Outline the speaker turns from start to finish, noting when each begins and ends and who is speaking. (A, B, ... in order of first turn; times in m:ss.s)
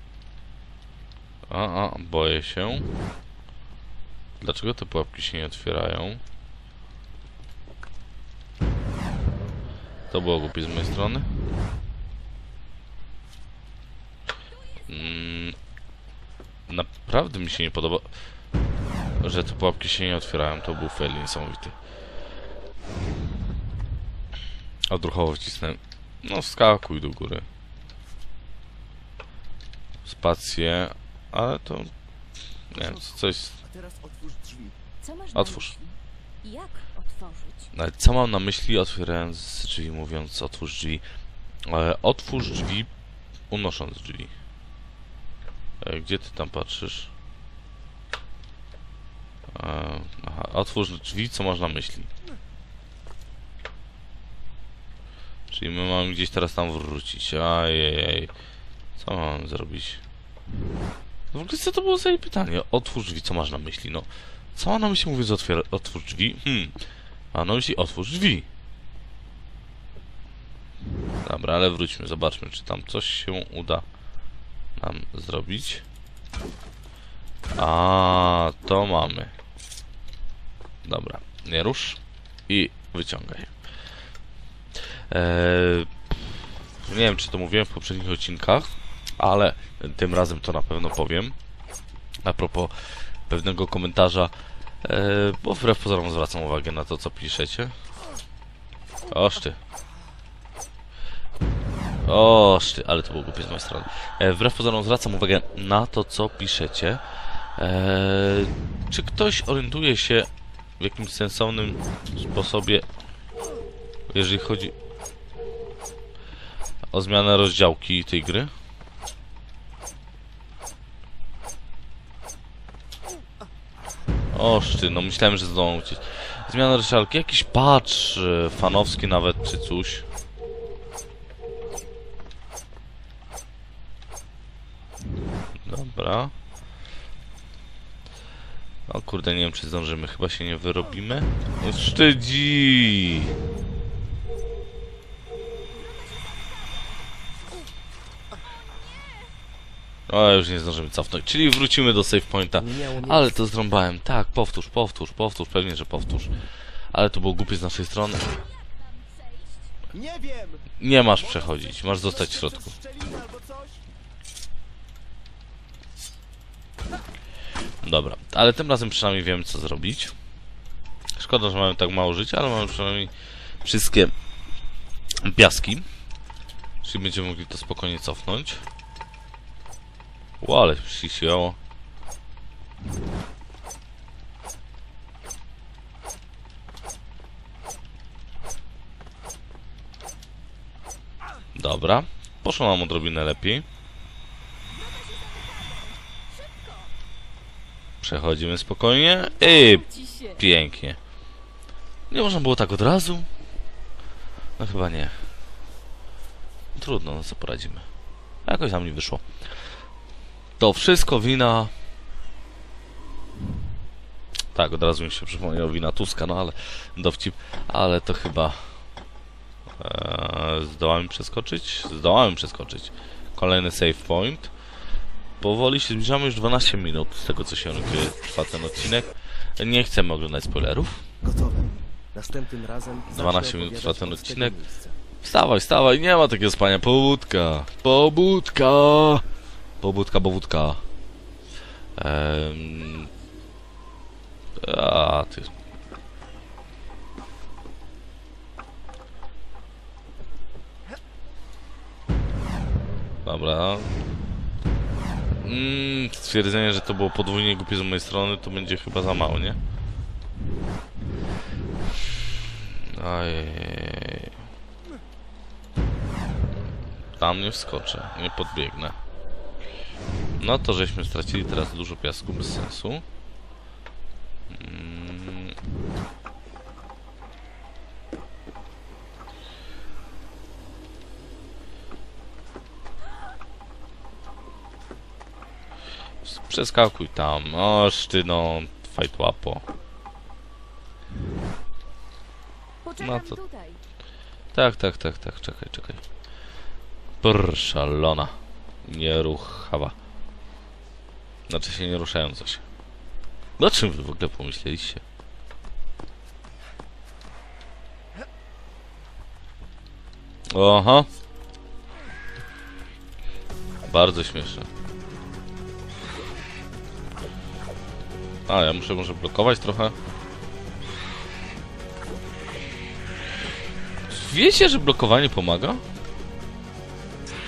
0:01.5-0:02.9 A
0:04.4-0:06.2 A
0:10.1-0:11.3 A
0:14.5-0:15.2 B
0:14.9-0:15.6 A
0:16.7-0:18.1 A
0:19.2-0:21.8 A
0:24.9-0:27.5 A
0:30.0-0:31.9 A
0:32.7-0:33.6 A
0:32.7-0:34.8 C
0:35.0-0:37.7 B
0:35.3-0:35.7 A
0:37.7-0:41.0 A
0:41.7-0:42.9 A
0:43.5-0:44.3 A
0:45.8-0:47.1 A
0:49.5-0:52.1 A
0:55.5-0:58.3 A
0:59.0-1:00.0 A
1:01.3-1:06.7 A
1:07.3-1:08.5 A
1:11.2-1:13.8 A
1:14.8-1:15.8 A
1:17.6-1:19.3 A
1:20.8-1:23.5 A
1:25.1-1:25.9 A
1:26.9-1:31.4 A
1:32.2-1:32.7 A
1:33.3-1:34.3 A
1:34.8-1:37.7 A
1:39.1-1:39.6 A
1:42.0-1:47.0 A
1:47.6-1:52.9 A
1:54.1-1:54.8 A
1:56.9-1:58.5 A
2:04.3-2:10.0 A
2:15.6-2:16.3 A
2:18.9-2:23.3 A
2:25.7-2:27.2 B
2:28.4-2:29.3 B
2:30.1-2:36.3 A
2:32.6-2:33.3 C
2:36.9-2:38.2 A
2:38.0-2:39.8 B
2:39.9-2:43.8 C
2:40.8-2:42.7 A
2:47.8-2:50.1 A
2:51.2-2:53.1 A
2:53.6-2:54.1 A
2:55.2-2:55.9 A
2:56.8-2:58.6 A
3:00.4-3:01.6 A
3:11.6-3:13.6 A
3:14.7-3:16.9 B
3:18.0-3:19.9 A
3:19.2-3:20.4 B
3:20.4-3:21.0 A
3:22.1-3:23.3 A
3:24.6-3:25.2 A
3:26.8-3:27.9 A
3:28.4-3:29.2 A
3:30.6-3:31.7 A
3:34.5-3:38.6 A
3:39.8-3:44.5 A
3:45.4-3:51.0 A
3:51.2-3:55.0 C
3:53.1-3:54.6 A
3:55.2-3:59.2 A
3:59.8-4:00.8 A
4:02.0-4:03.1 A
4:04.6-4:05.5 A
4:13.2-4:13.9 A
4:15.4-4:19.6 A
4:22.9-4:24.3 A
4:27.2-4:29.0 A
4:30.4-4:33.0 A
4:34.5-4:35.6 A
4:46.2-4:49.6 A
4:52.8-4:53.8 B
4:53.0-4:53.4 A
4:54.5-4:56.0 A
4:57.2-5:00.0 A
5:01.5-5:02.6 A
5:03.6-5:05.0 A
5:10.5-5:11.1 A
5:13.9-5:14.7 A
5:18.5-5:20.0 A
5:24.1-5:25.8 A